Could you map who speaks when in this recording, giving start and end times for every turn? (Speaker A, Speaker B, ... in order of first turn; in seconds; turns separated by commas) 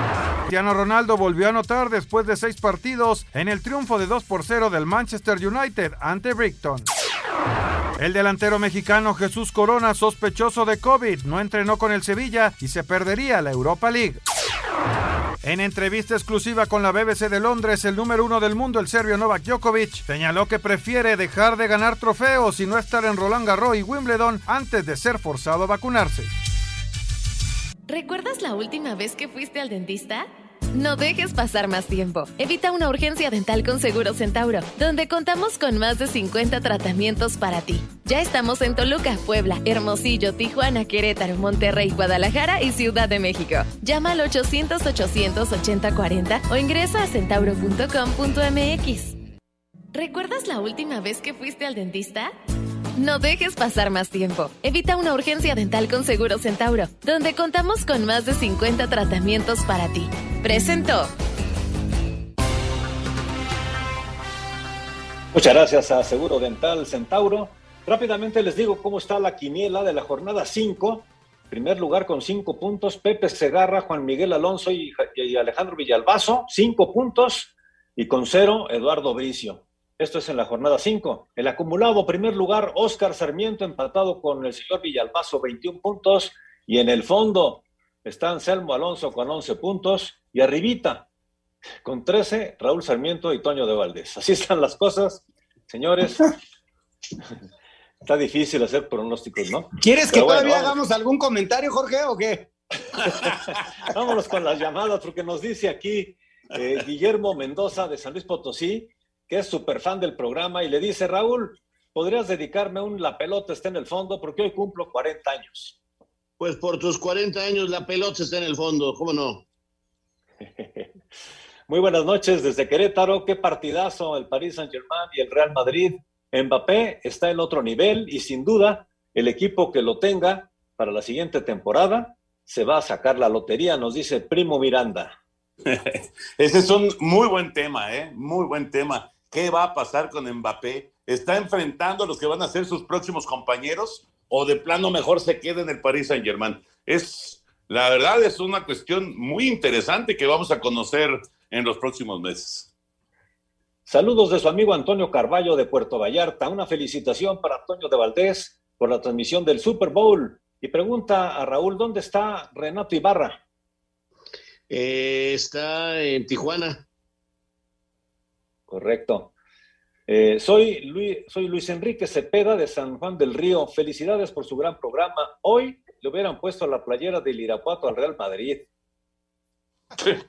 Speaker A: 0.5-6.9, Speaker A: 8.0-14.2, Speaker A: 15.4-26.3, Speaker B: 27.9-49.2, Speaker B: 49.9-52.3, Speaker B: 53.0-61.1, Speaker C: 65.3-91.0, Speaker C: 91.8-96.3, Speaker C: 98.0-100.7, Speaker D: 99.8-102.5, Speaker C: 103.3-115.8, Speaker E: 116.4-119.4, Speaker C: 120.4-120.9, Speaker C: 121.7-135.1, Speaker F: 135.7-152.7, Speaker C: 153.9-163.4, Speaker E: 164.7-166.8, Speaker C: 168.7-169.3, Speaker C: 170.1-178.7